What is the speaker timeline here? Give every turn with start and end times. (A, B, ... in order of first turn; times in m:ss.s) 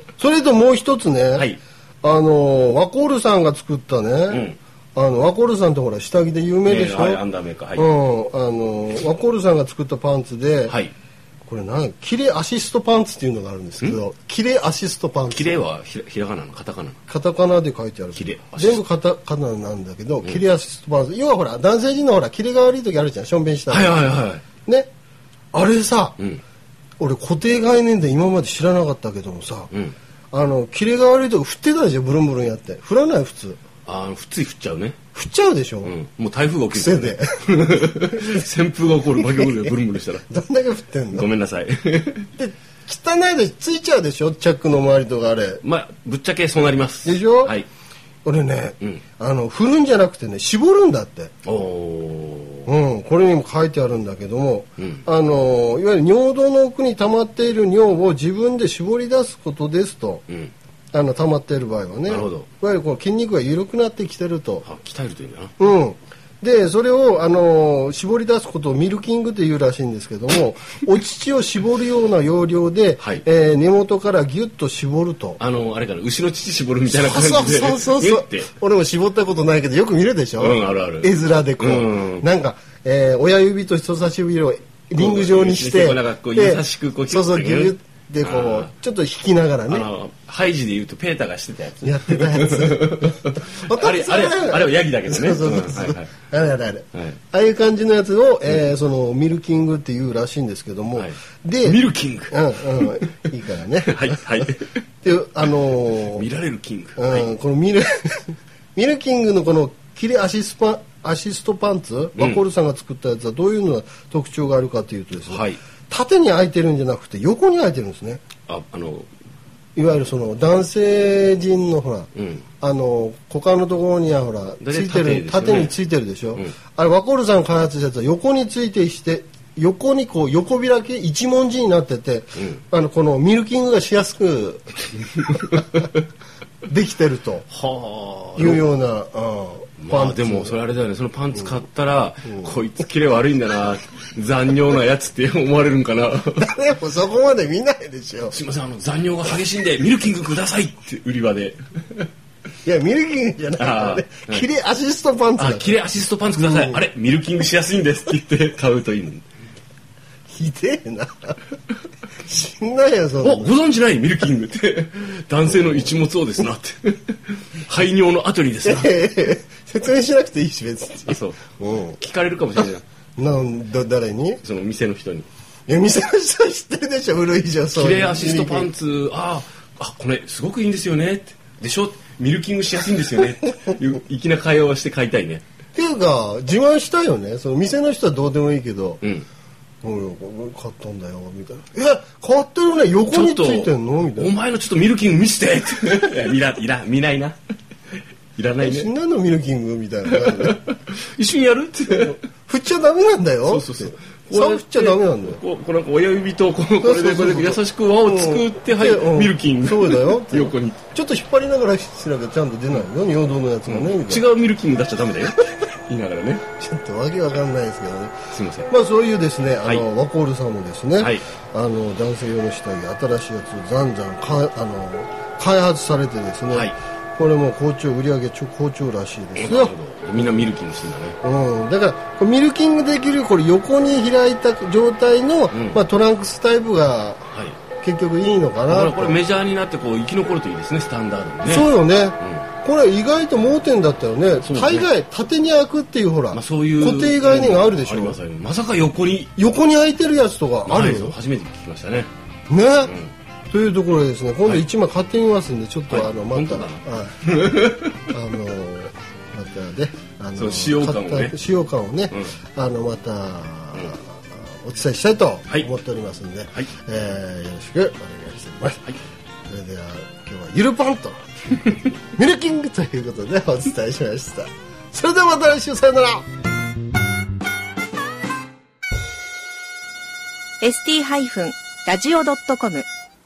0:00.2-0:07.2 A
0:04.3-0:04.6 B
0:06.7-0:07.9 B
0:07.8-0:10.8 A
0:11.5-0:15.6 A
0:15.3-0:17.0 B
0:17.1-0:24.1 A
0:18.2-0:18.8 B
0:23.7-0:24.5 B
0:24.6-0:24.9 A
0:25.5-0:26.2 A
0:27.0-0:29.7 A
0:30.3-0:33.6 A
0:33.9-0:35.0 B
0:35.2-0:36.0 A
0:35.8-0:40.3 B
0:36.7-0:38.4 A
0:39.2-0:39.7 A
0:40.3-0:41.3 A
0:41.2-0:42.3 B
0:42.4-0:45.6 A
0:45.6-0:47.7 B
0:47.0-0:47.6 A
0:48.2-0:51.3 A
0:51.4-0:52.7 B
0:52.7-1:00.2 A
0:54.8-0:55.0 B
1:00.9-1:04.7 A
1:02.1-1:02.5 B
1:04.7-1:05.6 B
1:05.6-1:15.4 A
1:15.4-1:18.5 B
1:16.9-1:29.9 A
1:20.4-1:22.3 B
1:25.0-1:28.7 B
1:29.7-1:36.2 B
1:31.8-1:46.3 A
1:36.9-1:37.2 B
1:41.0-1:43.2 B
1:43.9-1:44.8 B
1:46.2-1:47.3 B
1:47.0-1:58.2 A
1:55.3-1:55.6 B
1:58.5-1:59.1 B
1:59.8-2:02.1 A
2:02.2-2:02.5 B
2:02.6-2:15.9 A
2:04.6-2:05.7 B
2:12.4-2:12.6 B
2:16.7-2:17.5 A
2:17.5-2:18.6 B
2:18.4-2:20.6 A
2:19.8-2:26.5 B
2:22.3-2:22.6 A
2:26.4-2:28.4 A
2:28.4-2:32.1 B
2:32.6-2:35.8 A
2:33.6-2:34.5 B
2:35.4-2:39.2 B
2:36.4-2:36.8 A
2:40.3-2:41.4 A
2:42.2-2:43.6 A
2:43.3-2:48.9 B
2:45.5-2:46.0 A
2:48.6-2:52.0 A
2:51.1-2:52.8 B
2:53.2-2:54.4 A
2:54.4-2:55.3 B
2:55.7-2:58.7 A
2:57.8-3:05.4 B
3:05.8-3:09.0 A
3:09.8-3:14.4 A
3:13.1-3:17.4 B
3:18.4-3:18.9 B
3:18.6-3:20.6 A
3:20.1-3:22.1 B
3:21.9-3:25.4 A
3:23.5-3:29.7 B
3:26.8-3:34.3 A
3:30.3-3:30.8 B
3:33.6-3:36.4 B
3:36.6-3:49.8 A
3:38.4-3:38.7 B
3:46.5-3:46.8 B
3:49.4-3:51.2 B
3:51.2-3:59.2 A
3:55.5-3:55.8 B
3:57.3-3:57.6 B
3:58.7-4:02.5 B
4:01.4-4:08.2 A
4:04.4-4:04.9 B
4:06.4-4:09.3 B
4:09.4-4:11.2 A
4:10.7-4:12.1 B
4:12.5-4:13.0 A
4:12.9-4:13.1 B
4:13.5-4:28.9 A
4:15.9-4:18.0 B
4:20.4-4:21.4 B
4:29.5-4:31.2 A
4:32.2-4:36.2 A
4:40.6-4:42.9 C